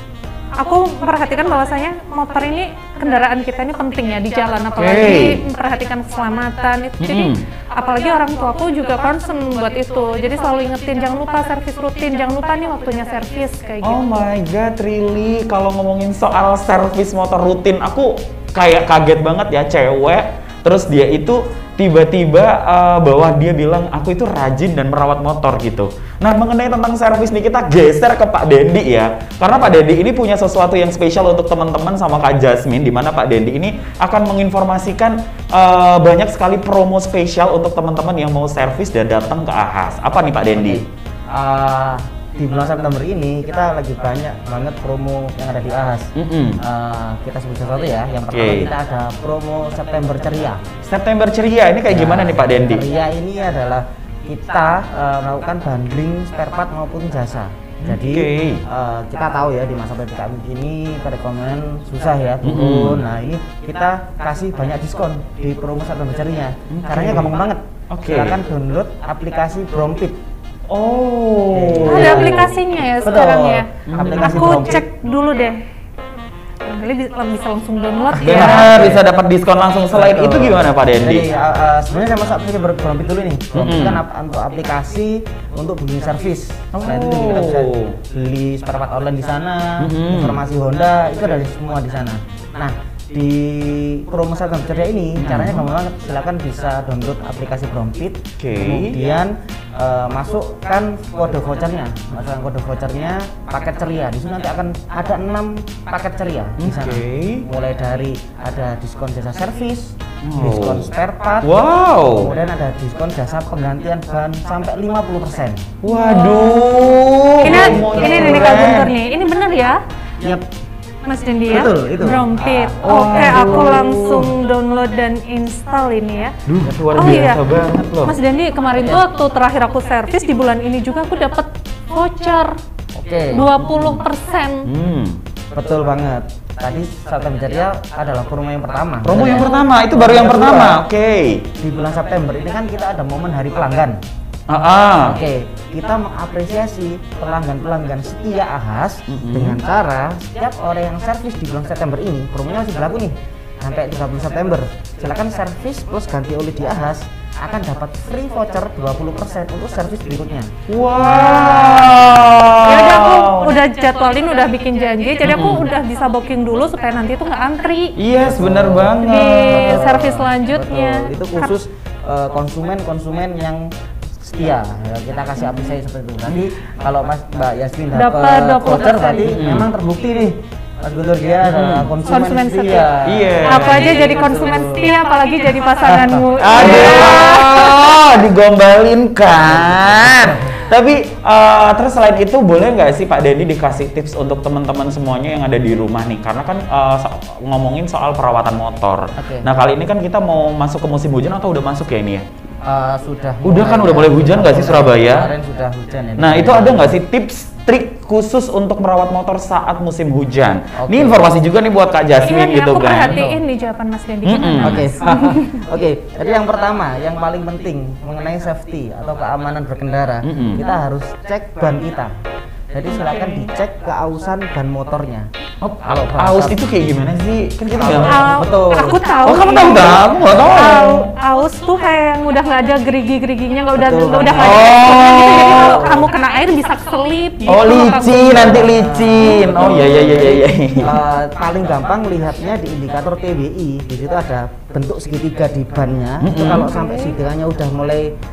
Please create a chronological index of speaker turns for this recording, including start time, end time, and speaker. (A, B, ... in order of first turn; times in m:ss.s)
0:00.6-0:14.2 A
0:04.8-0:05.4 B
0:07.0-0:07.4 B
0:13.8-0:40.8 B
0:40.5-0:50.7 C
0:46.2-0:46.6 B
0:48.3-0:48.7 B
0:50.8-0:52.9 B
0:51.9-1:10.2 C
0:57.8-0:58.6 B
1:02.4-1:03.0 B
1:06.7-1:07.3 B
1:07.9-1:08.4 B
1:10.7-1:12.5 B
1:11.5-1:14.9 C
1:11.9-1:15.6 A
1:13.9-1:14.7 B
1:16.6-1:18.8 A
1:18.2-1:19.0 C
1:18.2-1:21.3 B
1:19.9-1:55.7 C
1:23.5-1:24.0 B
1:26.7-1:28.0 B
1:29.8-1:30.4 B
1:35.2-1:35.7 B
1:38.4-1:39.0 B
1:46.6-1:47.5 B
1:50.2-1:50.9 B
1:51.4-1:52.3 B
1:55.8-1:58.9 B
1:55.9-1:56.8 A
1:57.4-1:59.8 A
1:57.4-1:58.8 C
2:00.2-2:00.5 C
2:01.0-2:06.4 A
2:01.5-2:04.2 C
2:02.8-2:04.3 B
2:06.5-2:08.2 B
2:06.9-2:07.5 A
2:08.0-2:12.5 A
2:08.8-2:09.0 C
2:13.0-2:13.6 C
2:13.3-2:14.7 A
2:13.7-2:14.0 B
2:14.6-2:15.2 B
2:15.5-2:20.8 C
2:19.0-2:21.5 B
2:21.6-2:24.0 C
2:24.5-2:25.2 B
2:25.0-2:42.3 C
2:29.1-2:29.6 B
2:40.7-2:43.6 B
2:42.6-2:48.0 A
2:45.2-2:45.7 B
2:48.0-2:49.8 B
2:48.2-3:04.9 C
2:49.0-2:51.5 A
2:57.9-2:59.4 A
2:59.3-2:59.7 B
3:01.4-3:01.9 B
3:02.1-3:08.0 A
3:03.0-3:04.2 B
3:05.8-3:07.5 C
3:06.4-3:22.2 B
3:09.5-3:10.4 C
3:19.2-3:19.5 C
3:22.6-3:27.0 C
3:23.4-3:25.3 B
3:26.2-3:33.2 B
3:30.8-3:31.3 C
3:32.2-3:35.5 A
3:33.0-3:33.4 C
3:34.2-3:35.4 B
3:34.6-3:42.1 C
3:40.2-3:40.7 B
3:42.7-3:45.3 C
3:42.9-3:43.5 A
3:45.6-3:48.5 B
3:45.8-3:46.6 C
3:47.7-3:49.0 C
3:48.0-3:58.6 A
3:49.2-3:51.1 B
3:53.7-3:54.8 C
3:54.3-3:56.0 B
3:55.4-3:56.1 C
3:57.5-4:01.0 B
3:57.9-4:08.2 C
4:06.2-4:06.7 B
4:06.6-4:07.1 A